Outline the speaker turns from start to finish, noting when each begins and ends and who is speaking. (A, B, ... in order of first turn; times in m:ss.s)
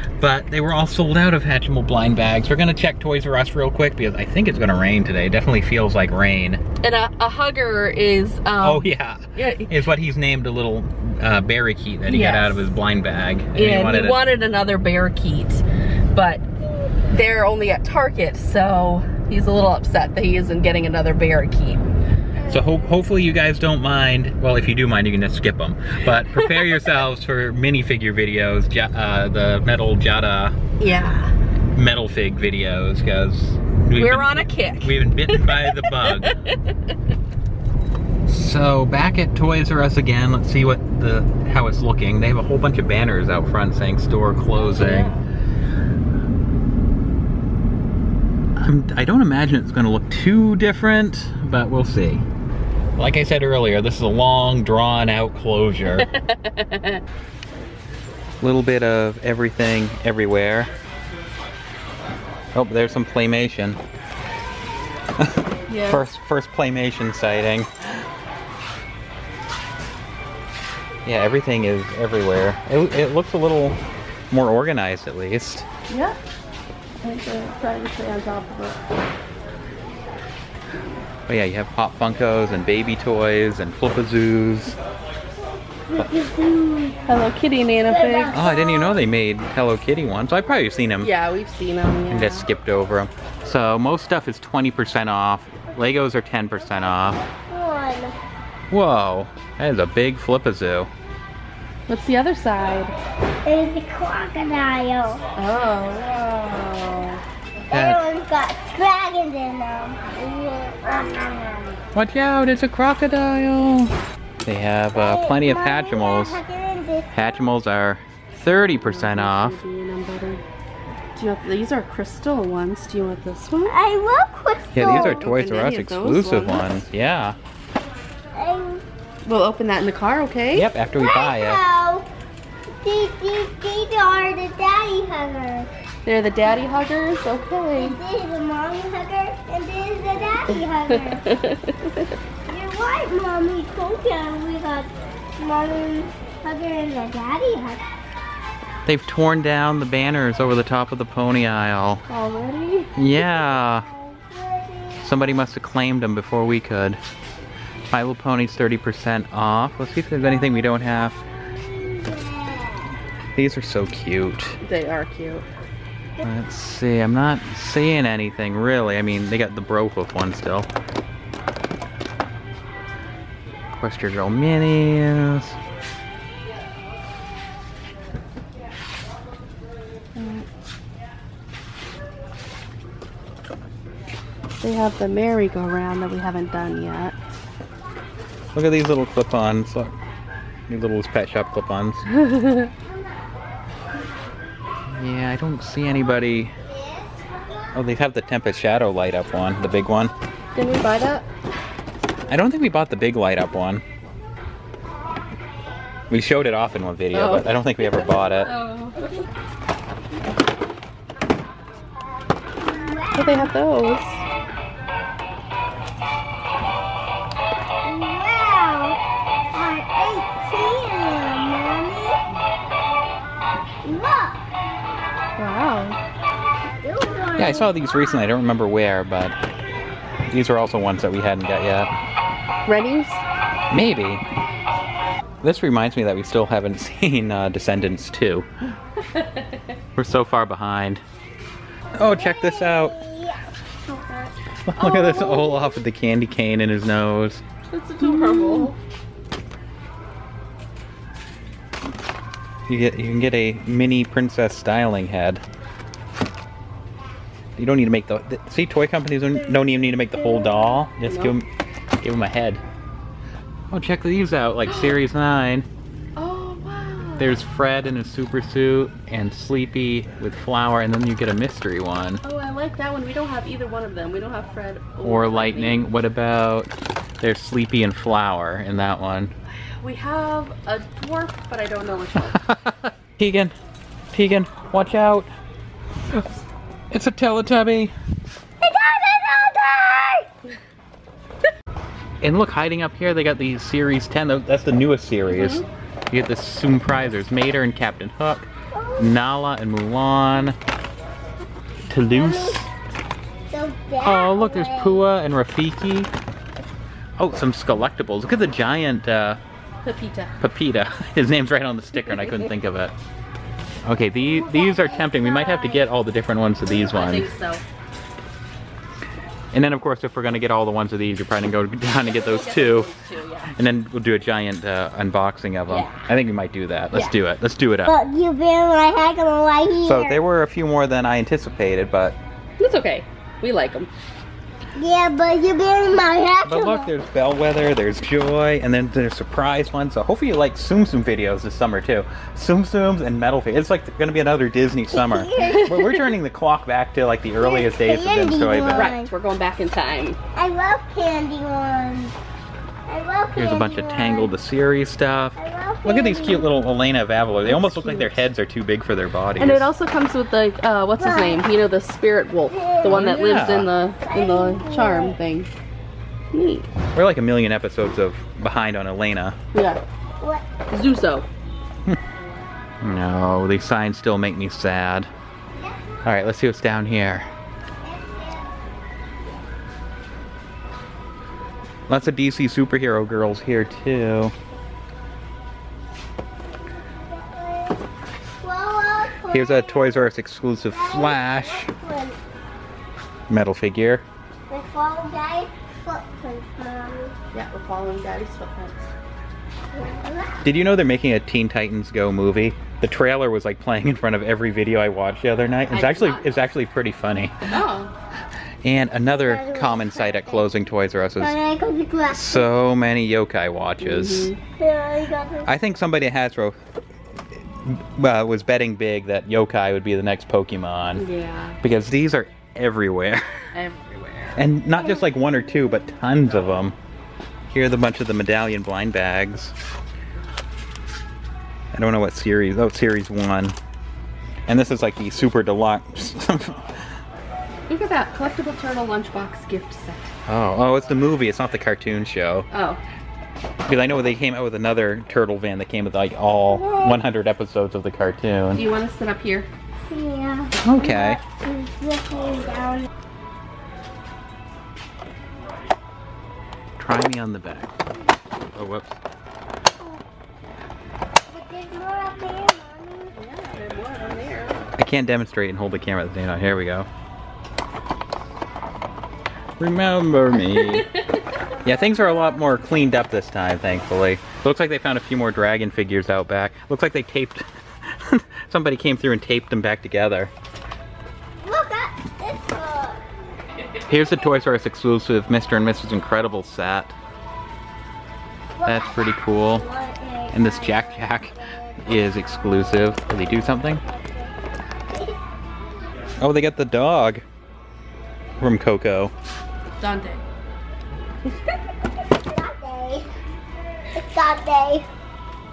0:00.2-0:06.6 A
0:06.8-0:09.7 B
0:08.6-0:14.3 A
0:12.1-0:12.7 B
0:13.6-0:16.4 B
0:17.1-0:21.8 B
0:22.5-0:30.6 A
0:30.8-0:31.3 B
0:31.8-0:36.4 A
0:34.0-0:36.7 B
0:38.2-0:45.1 A
0:44.6-0:45.2 B
0:48.6-0:52.2 A
0:53.0-0:56.1 A
0:55.9-0:57.0 B
0:58.4-1:00.7 A
1:02.5-1:03.8 A
1:05.2-1:07.7 A
1:05.7-1:06.0 B
1:11.0-1:13.8 A
1:14.3-1:15.7 A
1:15.9-1:16.2 B
1:17.0-1:18.8 B
1:21.3-1:24.8 A
1:25.9-1:27.0 C
1:27.1-1:28.3 B
1:27.9-1:29.0 C
1:28.3-1:31.1 A
1:31.0-1:32.5 B
1:32.1-1:37.2 A
1:37.3-1:38.2 C
1:38.7-1:40.9 A
1:41.9-1:42.9 B
1:43.4-1:45.2 C
1:45.4-1:47.2 B
1:47.7-1:51.8 C
1:47.7-1:48.0 A
1:51.9-1:56.4 A
1:55.0-1:57.4 C
1:57.1-1:59.6 A
1:58.5-2:00.4 B
2:01.2-2:03.7 B
2:03.7-2:05.3 C
2:04.7-2:07.4 A
2:04.8-2:06.8 B
2:08.4-2:08.8 C
2:09.2-2:10.7 B
2:10.5-2:11.6 A
2:11.0-2:12.1 C
2:12.8-2:15.7 C
2:16.1-2:18.0 B
2:17.8-2:21.2 C
2:20.9-2:22.0 B
2:22.5-2:27.8 C
2:28.9-2:32.0 A
2:32.1-2:32.9 B
2:33.0-2:33.9 A
2:33.2-2:35.1 C
2:35.0-2:37.0 A
2:37.9-2:41.2 A
2:41.6-2:42.9 C
2:43.4-2:44.6 A
2:44.6-2:45.4 B
2:46.2-2:50.7 A
2:53.8-2:55.6 A
3:00.2-3:00.5 B
3:04.6-3:07.2 B
3:08.6-3:10.0 A
3:10.7-3:12.0 A
3:12.1-3:12.7 B
3:14.9-3:16.5 A
3:16.7-3:17.2 C
3:17.7-3:20.1 A
3:20.6-3:21.3 B
3:22.3-3:23.8 A
3:26.1-3:28.5 A
3:27.1-3:29.0 B
3:32.6-3:33.5 C
3:33.1-3:34.2 B
3:37.8-3:39.0 C
3:39.5-3:42.2 C
3:43.8-3:44.4 C
3:45.4-3:46.0 B
3:46.8-3:47.7 C
3:47.4-3:49.4 A
3:50.3-3:51.9 A
3:52.7-3:53.2 B
3:53.7-3:54.2 A
3:55.4-3:58.5 A
3:59.1-3:59.6 B
4:00.0-4:01.0 A
4:02.0-4:03.0 A
4:02.0-4:04.3 C
4:04.7-4:07.4 A
4:04.8-4:05.5 B
4:07.7-4:08.8 B
4:08.0-4:08.7 C
4:12.7-4:15.4 A
4:17.6-4:21.5 A
4:20.3-4:20.6 C
4:21.1-4:21.4 B
4:22.0-4:22.6 A
4:23.7-4:25.6 A
4:24.7-4:25.0 B
4:26.2-4:27.4 B
4:27.2-4:32.2 A
4:32.2-4:35.9 B
4:35.0-4:39.3 A
4:39.6-4:42.6 B
4:42.2-4:43.6 A
4:44.1-4:45.3 A
4:46.9-4:47.9 A
4:48.6-4:50.3 C
4:52.2-5:00.6 A
4:55.3-4:55.6 B
4:58.7-4:59.1 C
5:01.9-5:02.7 A
5:02.1-5:02.6 C
5:03.5-5:05.0 C
5:04.0-5:06.1 A
5:07.2-5:09.4 A
5:09.8-5:10.4 B
5:10.4-5:13.0 A
5:13.8-5:17.3 A
5:14.2-5:15.9 C
5:16.7-5:17.6 B
5:19.5-5:22.9 A
5:22.0-5:23.6 B
5:23.5-5:27.9 A
5:25.7-5:26.0 B
5:26.9-5:27.2 B
5:27.9-5:30.2 C
5:29.8-5:32.2 A
5:32.6-5:33.9 B
5:34.8-5:36.9 C
5:36.4-5:48.9 A
5:44.9-5:46.0 C
5:45.4-5:45.9 B
5:47.4-5:49.1 C
5:48.7-5:50.2 B
5:50.4-5:52.2 C
5:52.9-5:54.3 C
5:53.4-5:59.7 A
5:55.4-5:56.5 C
5:57.4-5:58.1 B
5:59.4-6:05.5 B
6:01.0-6:01.4 C
6:02.5-6:03.2 C
6:02.9-6:03.7 A
6:04.0-6:05.2 C
6:06.3-6:06.7 B
6:06.9-6:09.4 A
6:09.5-6:09.8 B
6:10.7-6:11.3 B
6:12.8-6:15.1 A
6:15.6-6:16.0 C
6:16.0-6:17.3 A
6:17.8-6:18.6 C
6:21.9-6:24.3 A
6:27.1-6:27.8 C
6:28.4-6:30.0 C
6:29.3-6:31.7 A
6:30.7-6:32.2 C
6:33.3-6:34.0 A
6:34.5-6:37.1 C
6:37.3-6:38.9 B
6:39.7-6:40.5 C
6:40.4-6:47.4 A
6:45.7-6:46.4 B
6:47.4-6:47.9 B
6:48.6-6:51.4 A
6:49.1-6:50.4 C
6:51.2-6:52.5 C
6:52.1-6:54.3 A
6:53.8-6:54.4 B
6:54.6-6:55.5 C
6:55.4-6:56.6 A
6:57.3-7:01.1 A
7:01.0-7:01.6 B
7:01.6-7:03.4 A
7:03.5-7:04.5 B
7:04.4-7:06.8 A
7:07.5-7:09.5 A
7:11.7-7:13.6 A
7:14.5-7:16.9 A
7:17.7-7:20.1 B
7:20.3-7:22.5 A
7:22.5-7:22.8 B
7:23.7-7:28.6 A
7:26.5-7:27.0 C
7:28.5-7:29.5 B
7:29.9-7:32.9 C
7:30.6-7:31.2 A
7:36.8-7:37.7 A
7:38.5-7:39.0 A
7:41.3-7:43.1 C
7:43.1-7:44.6 B
7:44.8-7:46.9 A
7:49.6-7:50.9 A
7:50.4-7:51.4 B
7:51.6-7:52.6 C
7:51.6-8:00.3 A
8:01.4-8:03.0 C
8:03.9-8:06.9 A
8:08.6-8:11.1 C
8:08.6-8:09.6 A
8:10.3-8:13.8 A
8:13.9-8:14.3 C
8:14.9-8:15.2 C
8:16.2-8:17.2 A
8:18.4-8:19.1 A
8:19.8-8:20.2 B
8:22.3-8:23.1 C
8:23.9-8:24.9 C